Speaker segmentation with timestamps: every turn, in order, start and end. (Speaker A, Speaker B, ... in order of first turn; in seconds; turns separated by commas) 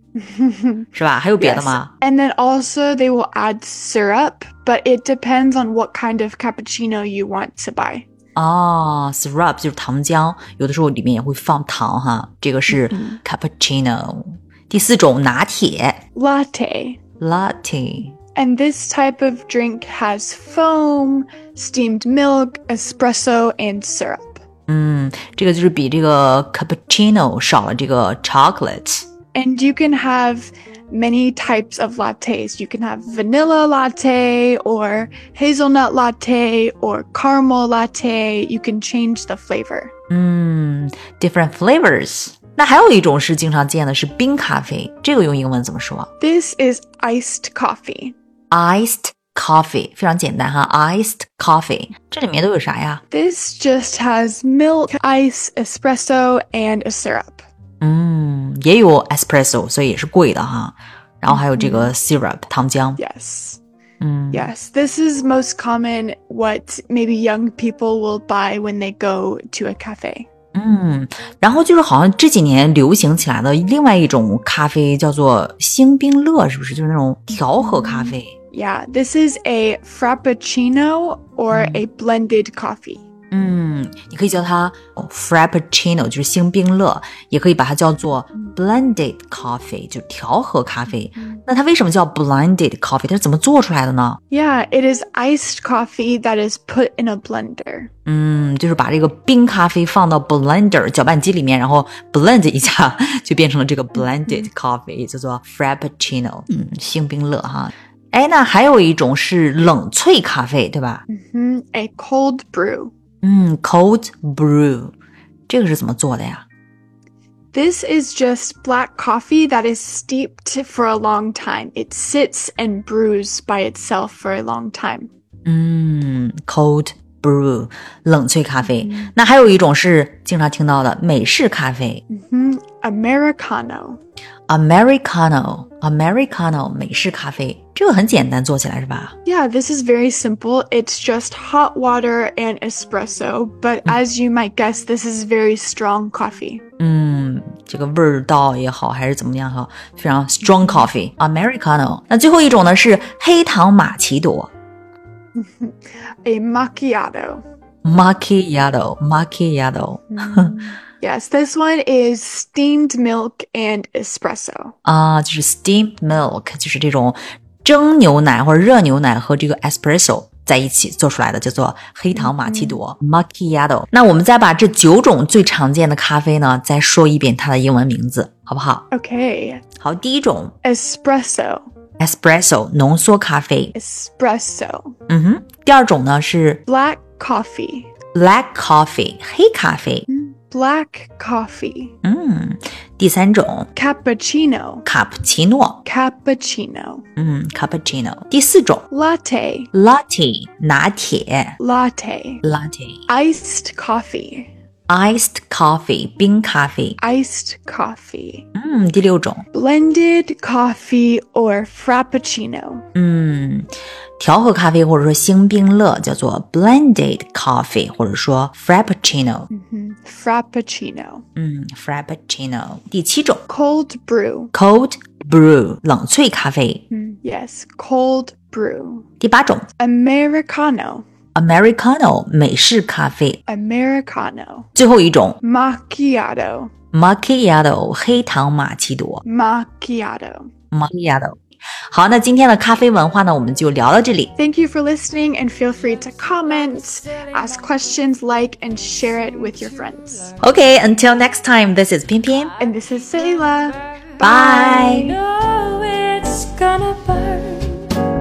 Speaker A: 0.2-0.9, Speaker B: 0.9-1.9, Speaker A: 1.4-8.1, Speaker B: 8.3-16.0, Speaker A: 12.7-13.2, Speaker A: 16.1-17.0, Speaker B: 17.2-18.2, Speaker A: 18.4-24.4, Speaker B: 24.7-29.1, Speaker A: 29.3-39.9, Speaker B: 40.1-46.1, Speaker A: 46.2-48.1, Speaker B: 48.5-53.0, Speaker A: 53.1-57.5, Speaker B: 57.8-63.0, Speaker A: 61.3-62.0, Speaker A: 63.0-63.6, Speaker B: 64.0-64.5, Speaker A: 64.3-70.3, Speaker B: 70.5-78.4, Speaker A: 77.4-83.0, Speaker B: 81.5-81.8, Speaker B: 83.3-94.2, Speaker A: 91.2-91.4, Speaker A: 94.3-97.9, Speaker B: 98.1-111.0, Speaker A: 104.0-104.5, Speaker A: 111.1-112.9, Speaker B: 113.2-114.9, Speaker B: 115.5-116.4, Speaker A: 117.5-125.1, Speaker B: 125.5-132.0, Speaker A: 128.7-129.1, Speaker A: 132.1-134.0, Speaker B: 134.5-139.1, Speaker A: 139.2-146.6, Speaker B: 146.8-154.5, Speaker A: 150.4-150.9, Speaker A: 155.3-157.4, Speaker B: 157.8-160.5, Speaker A: 160.1-164.8, Speaker B: 164.8-178.8, Speaker A: 172.1-172.8, Speaker A: 178.9-179.6, Speaker B: 179.8-180.5, Speaker A: 180.6-181.7, Speaker B: 182.0-183.7, Speaker A: 183.7-185.0, Speaker B: 185.1-186.6, Speaker A: 186.7-187.9, Speaker B: 188.1-190.1, Speaker A: 190.1-191.9, Speaker B: 192.0-193.7, Speaker A: 193.8-194.9, Speaker B: 194.9-195.8, Speaker A: 195.8-197.1, Speaker B: 197.2-198.9, Speaker A: 198.9-199.7, Speaker B: 199.7-201.6, Speaker A: 201.6-202.4, Speaker B: 202.4-203.0, Speaker A: 203.1-204.5, Speaker B: 204.9-207.0, Speaker A: 207.0-208.5, Speaker B: 208.6-209.4, Speaker A: 209.5-212.8, Speaker B: 212.9-219.5, Speaker A: 219.5-221.2, Speaker B: 221.3-223.4, Speaker A: 223.5-224.5, Speaker B: 224.5-226.8, Speaker A: 226.9-229.1, Speaker B: 229.2-229.7, Speaker A: 229.8-231.1, Speaker B: 231.3-233.4, Speaker A: 233.5-234.7, Speaker B: 234.8-235.4, Speaker A: 235.4-236.7, Speaker B: 236.9-239.2, Speaker A: 239.2-240.5, Speaker B: 240.7-241.4, Speaker B: 241.9-244.3, Speaker A: 244.4-250.3, Speaker B: 250.4-252.6, Speaker A: 252.6-255.2, Speaker B: 254.2-255.1, Speaker C: 255.1-257.9